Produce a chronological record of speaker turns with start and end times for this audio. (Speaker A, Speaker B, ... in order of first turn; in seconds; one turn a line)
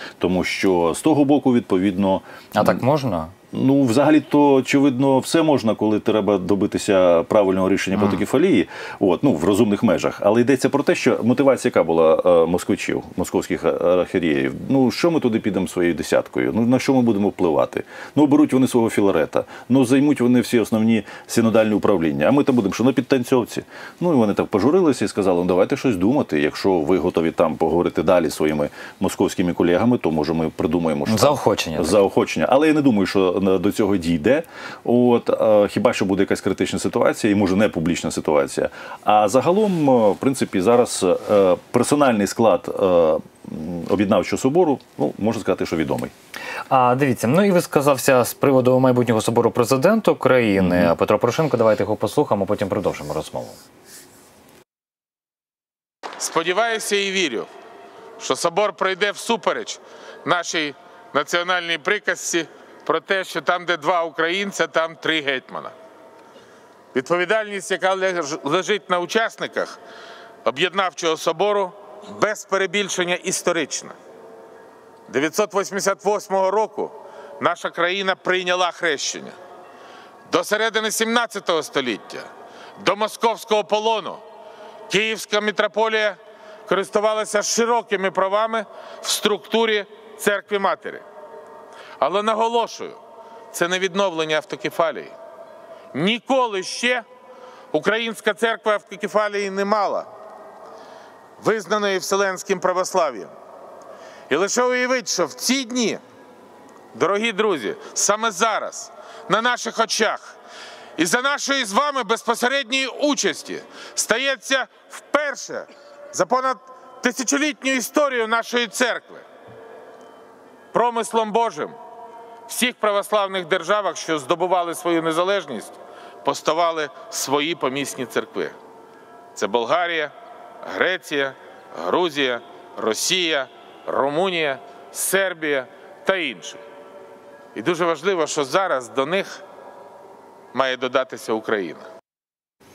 Speaker A: 0.2-2.8
Speaker B: 2.5-3.3
Speaker A: 3.5-46.1
Speaker B: 31.1-32.0
Speaker B: 46.7-53.6
Speaker A: 50.6-50.9
Speaker C: 56.2-57.5
Speaker C: 58.2-65.7
Speaker C: 66.9-69.8
Speaker C: 70.5-74.0
Speaker C: 75.1-79.4
Speaker C: 80.3-82.3
Speaker C: 82.8-84.2
Speaker C: 84.9-91.0
Speaker C: 92.0-93.0
Speaker C: 93.5-95.1
Speaker C: 95.9-97.0
Speaker C: 97.7-100.1
Speaker C: 101.4-103.3
Speaker C: 104.3-106.0
Speaker C: 106.9-110.3
Speaker C: 111.0-119.2
Speaker C: 120.7-121.8
Speaker C: 122.5-128.6
Speaker C: 129.3-130.1
Speaker C: 130.6-136.6
Speaker C: 137.6-139.4
Speaker C: 140.5-141.9